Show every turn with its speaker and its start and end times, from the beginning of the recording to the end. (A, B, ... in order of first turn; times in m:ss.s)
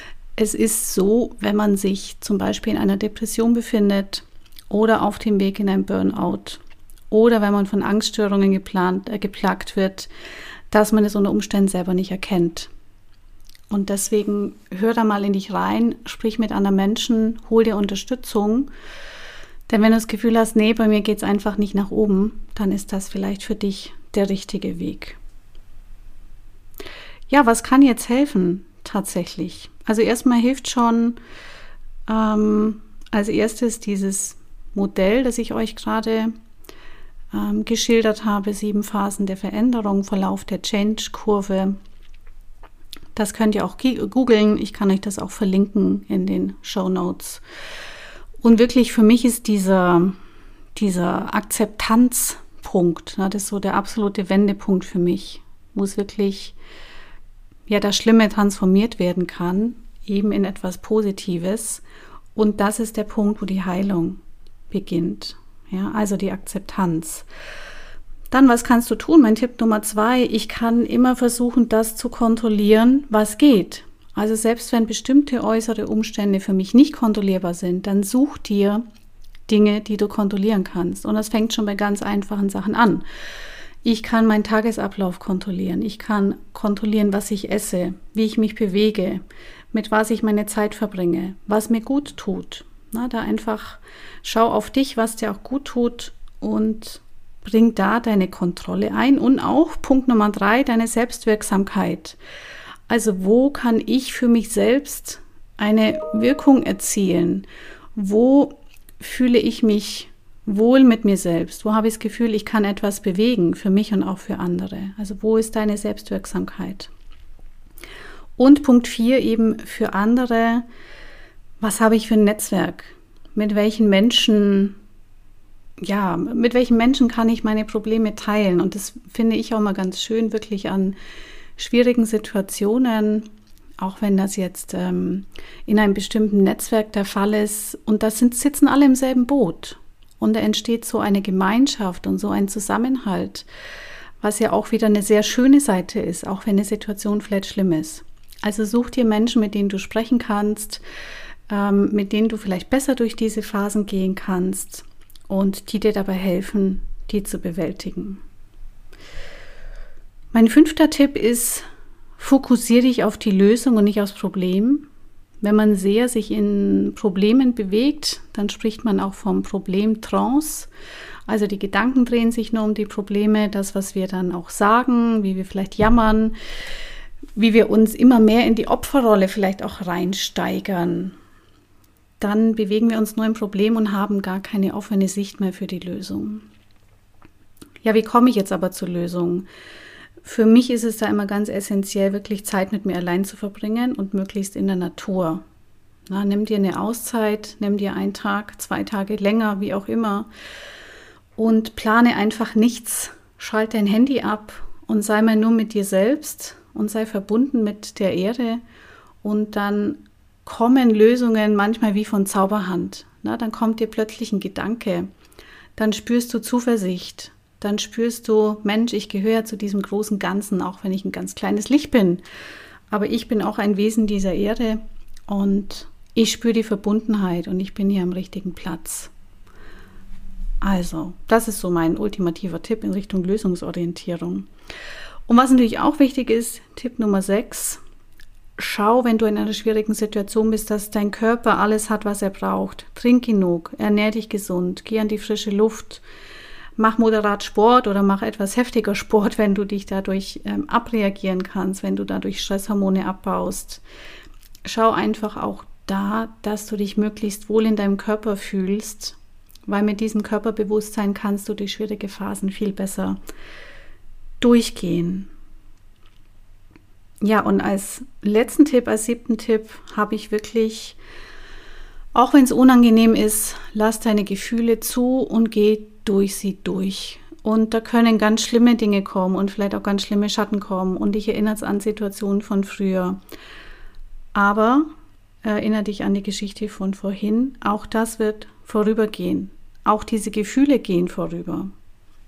0:00.4-0:10.1 A
0:10.7-0:12.7 A
0:13.7-0:18.7 A
0:19.7-0:25.2 A
0:27.3-0:31.2 A
0:32.1-0:36.3 A
0:37.3-0:41.8 A
0:43.2-0:47.4 A
0:48.4-0:50.2 A
0:50.7-0:56.5 A
0:57.7-1:01.8 A
1:02.3-1:04.2 A
1:04.7-1:07.2 A
1:08.3-1:18.8 A
1:19.5-1:23.0 A
1:23.8-1:42.2 A
1:42.9-1:56.9 A
1:58.4-2:00.6 A
2:01.6-2:04.8 A
2:05.8-2:11.0 A
2:11.6-2:23.5 A
2:24.2-2:30.8 A
2:31.5-2:38.2 A
2:40.3-2:41.6 A
2:42.2-2:44.8 A
2:45.4-2:50.7 A
2:51.3-2:56.3 A
2:57.4-3:01.2 A
3:02.2-3:06.4 A
3:07.8-3:09.5 A
3:10.2-3:15.4 A
3:16.1-3:20.3 A
3:21.4-3:28.6 A
3:29.2-3:35.1 A
3:35.8-3:42.2 A
3:42.9-3:49.1 A
3:50.6-3:54.5 A
3:55.3-3:57.8 A
3:58.6-4:06.0 A
4:06.8-4:13.8 A
4:14.6-4:23.2 A
4:24.4-4:25.3 A
4:27.2-4:31.0 A
4:32.1-4:43.2 A
4:44.3-4:44.9 A
4:45.4-4:51.7 A